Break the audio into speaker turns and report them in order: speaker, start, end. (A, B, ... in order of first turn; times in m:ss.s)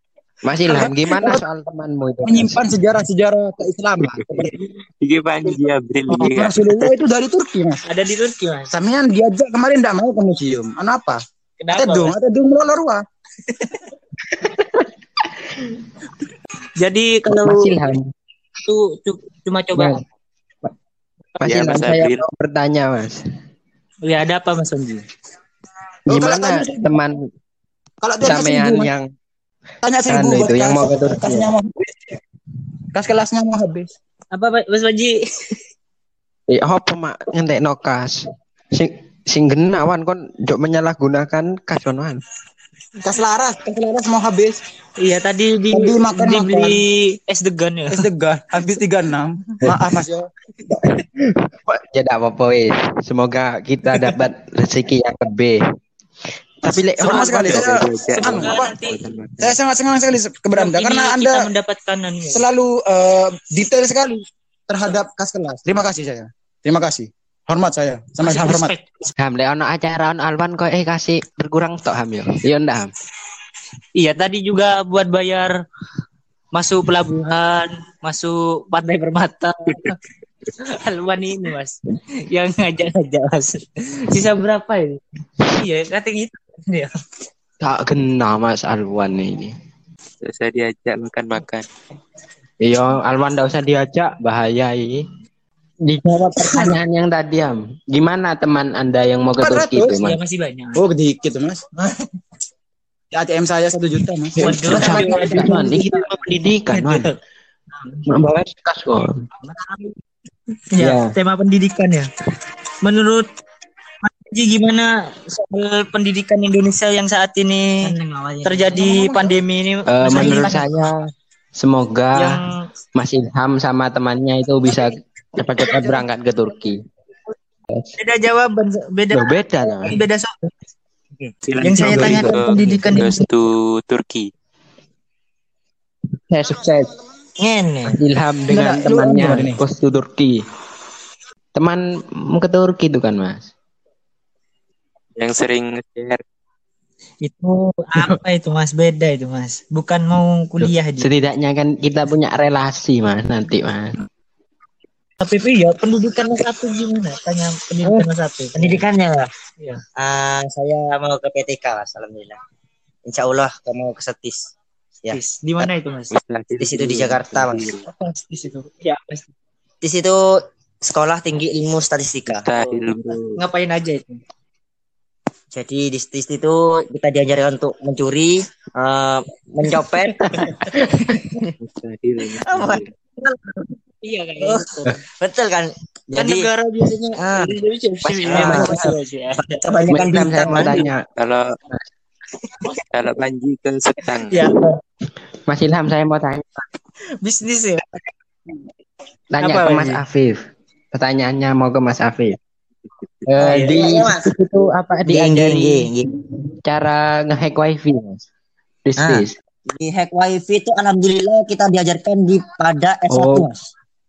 0:00.4-0:02.6 A
0:00.7-0:01.4 B
0:02.2-0:04.5 B
0:05.0-0:06.9 C
0:06.1-0:07.8 B
0:07.8-0:08.7 D
0:08.7-0:11.2 B
0:11.6-0:12.1 D
0:11.8-0:13.0 B
0:13.5-0:13.8 D
0:16.8-0:17.8 D
0:17.3-0:18.1 A
0:18.6-0:20.0 D
0:21.4-0:23.2 A
0:21.4-0:22.2 C
0:24.0-0:25.0 D
0:26.1-0:26.9 B
0:26.1-0:27.2 A
0:28.0-0:28.9 B
0:28.2-0:29.1 A
0:29.8-0:32.2 B
0:30.1-0:31.5 A
0:32.9-0:33.9 B
0:34.3-0:35.6 D
0:36.5-0:42.2 A
0:43.0-0:44.6 B
0:45.0-0:48.0 D
0:45.7-0:46.8 B
0:47.9-0:50.3 B
0:50.8-0:55.6 A
0:56.6-0:57.8 A
0:57.0-0:58.8 B
0:57.0-0:57.5 D
0:57.5-0:59.6 C
0:58.1-0:59.0 D
0:59.4-1:01.4 B
1:00.5-1:02.4 D
1:02.3-1:08.7 B
1:08.2-1:09.1 D
1:09.2-1:12.9 A
1:14.0-1:15.5 D
1:16.5-1:20.0 D
1:20.6-1:26.9 D
1:27.6-1:29.5 A
1:30.2-1:31.7 C
1:32.6-1:35.0 A
1:35.8-1:40.2 A
1:39.4-1:40.0 B
1:40.0-1:40.8 D
1:40.8-1:41.6 B
1:43.1-1:45.6 B
1:44.4-1:47.1 A
1:44.4-1:45.9 D
1:44.7-1:45.8 E
1:46.7-1:47.1 D
1:48.0-1:49.2 A
1:50.7-1:52.1 D
1:50.8-1:51.1 A
1:52.8-1:53.3 D
1:54.0-1:57.9 D
1:57.8-1:58.7 E
1:58.4-2:00.7 D
1:58.7-1:59.4 B
1:59.9-2:01.0 A
2:01.6-2:02.4 A
2:02.1-2:02.6 D
2:02.9-2:06.8 A
2:05.7-2:06.0 B
2:08.0-2:10.3 D
2:09.1-2:10.0 A
2:11.4-2:14.3 C
2:11.6-2:13.2 D
2:11.7-2:12.4 B
2:16.3-2:16.9 A
2:17.4-2:17.8 D
2:17.6-2:18.0 E
2:17.8-2:20.4 A
2:18.5-2:19.6 B
2:21.5-2:23.5 A
2:25.2-2:26.2 C
2:27.2-2:31.1 D
2:30.6-2:33.9 A
2:35.2-2:38.8 D
2:37.8-2:39.3 E
2:40.0-2:42.4 E
2:43.0-2:44.5 E
2:45.0-2:45.7 E
2:45.1-2:46.1 D
2:46.1-2:47.8 C
2:46.6-2:47.7 E
2:47.8-2:49.3 D
2:49.8-2:52.5 E
2:52.3-2:53.3 C
2:52.6-2:54.2 D
2:55.5-3:00.5 E
3:01.6-3:02.8 C
3:02.3-3:03.7 E
3:04.0-3:05.0 D
3:04.4-3:04.7 E
3:05.2-3:06.5 E
3:06.1-3:09.6 D
3:07.2-3:07.6 E
3:08.0-3:08.9 A
3:08.3-3:10.8 E
3:09.9-3:11.0 A
3:11.2-3:11.5 C
3:12.9-3:14.3 C
3:14.3-3:14.7 D
3:15.5-3:16.6 A
3:17.2-3:18.0 D
3:19.3-3:20.4 A
3:19.4-3:20.0 D
3:20.9-3:22.4 A
3:23.2-3:25.9 A
3:23.4-3:24.0 D
3:23.5-3:24.2 E
3:25.1-3:26.1 E
3:26.6-3:28.2 A
3:28.8-3:29.3 A
3:29.0-3:33.6 E
3:33.1-3:33.5 A